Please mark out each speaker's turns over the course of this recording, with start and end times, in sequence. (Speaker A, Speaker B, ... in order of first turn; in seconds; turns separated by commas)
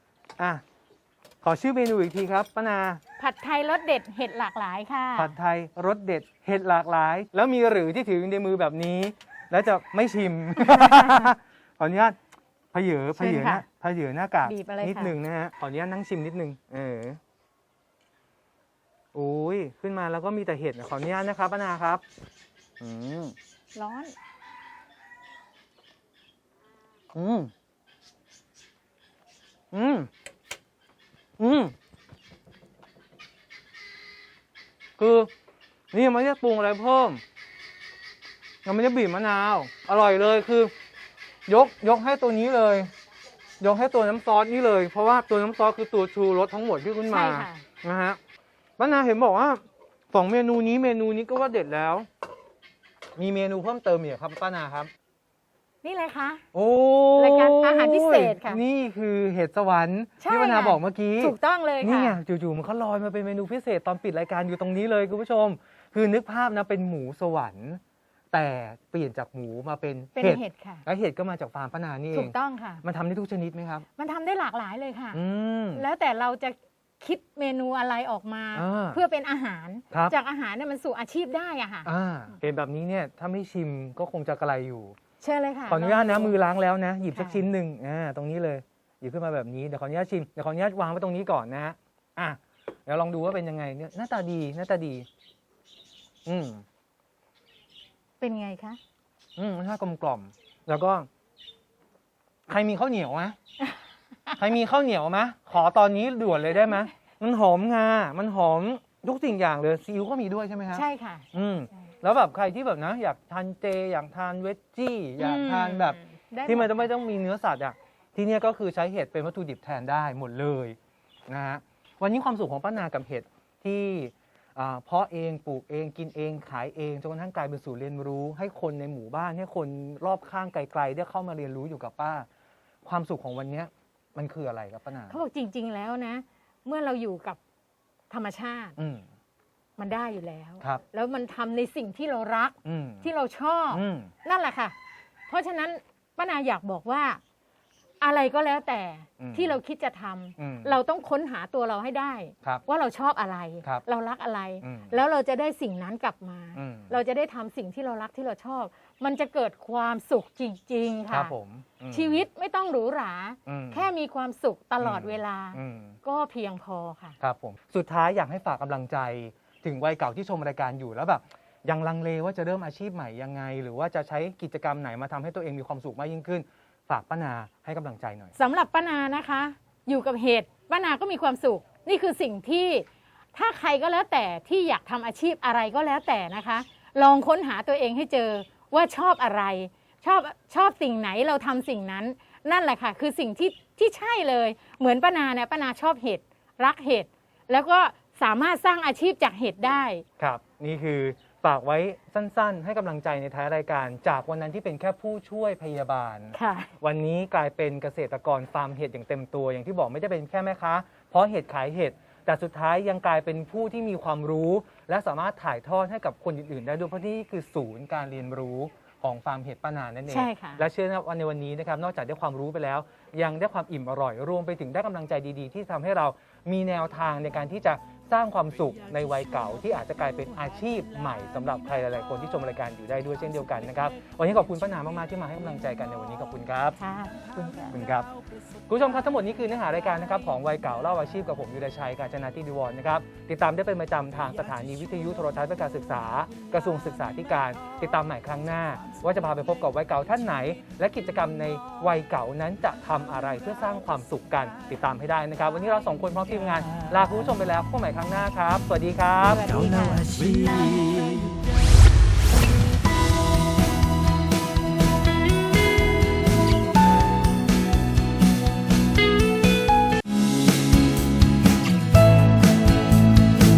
Speaker A: 1.4-3.0, Speaker B: 3.2-5.3, Speaker A: 5.2-12.2, Speaker B: 10.6-11.3, Speaker A: 12.7-17.2, Speaker B: 13.2-13.6, Speaker B: 14.4-15.1, Speaker A: 19.1-22.0, Speaker A: 22.8-23.3, Speaker B: 23.7-24.1, Speaker A: 27.1-27.5, Speaker A: 29.7-30.1, Speaker A: 31.4-31.7, Speaker A: 35.0-35.3, Speaker A: 35.9-37.2, Speaker A: 38.6-40.7, Speaker A: 41.5-42.9, Speaker A: 43.6-48.2, Speaker B: 47.1-47.6, Speaker A: 48.8-52.1, Speaker A: 53.1-54.9, Speaker B: 55.8-56.5, Speaker A: 56.5-67.8, Speaker B: 57.1-58.6, Speaker B: 60.2-62.2, Speaker A: 68.3-73.8, Speaker B: 70.2-70.8, Speaker B: 72.1-72.8, Speaker B: 74.0-75.2, Speaker A: 75.1-75.8, Speaker B: 75.7-81.9, Speaker A: 78.5-79.0, Speaker A: 79.9-80.2, Speaker A: 81.8-85.0, Speaker B: 85.2-86.3, Speaker A: 85.7-95.1, Speaker B: 87.1-87.4, Speaker A: 96.2-96.6, Speaker B: 98.2-98.8, Speaker A: 99.4-101.1, Speaker A: 102.5-103.4, Speaker A: 104.4-132.3, Speaker B: 110.7-111.3, Speaker B: 115.2-116.9, Speaker A: 132.8-135.2, Speaker B: 135.1-137.4, Speaker B: 138.1-138.8, Speaker A: 138.8-139.1, Speaker B: 139.8-144.7, Speaker A: 142.6-143.1, Speaker A: 143.7-144.1, Speaker B: 145.3-147.2, Speaker B: 148.0-161.3, Speaker A: 149.2-149.6, Speaker A: 150.4-150.8, Speaker A: 154.6-154.9, Speaker A: 156.5-156.9, Speaker A: 161.1-162.2, Speaker B: 161.9-167.2, Speaker A: 163.4-163.9, Speaker A: 164.8-166.0, Speaker A: 167.2-178.3, Speaker B: 178.3-200.0, Speaker A: 200.2-236.8, Speaker B: 206.3-206.7, Speaker B: 220.1-220.7, Speaker B: 236.8-237.8, Speaker A: 237.7-238.1, Speaker A: 238.7-259.4, Speaker B: 259.2-260.0, Speaker C: 259.3-261.4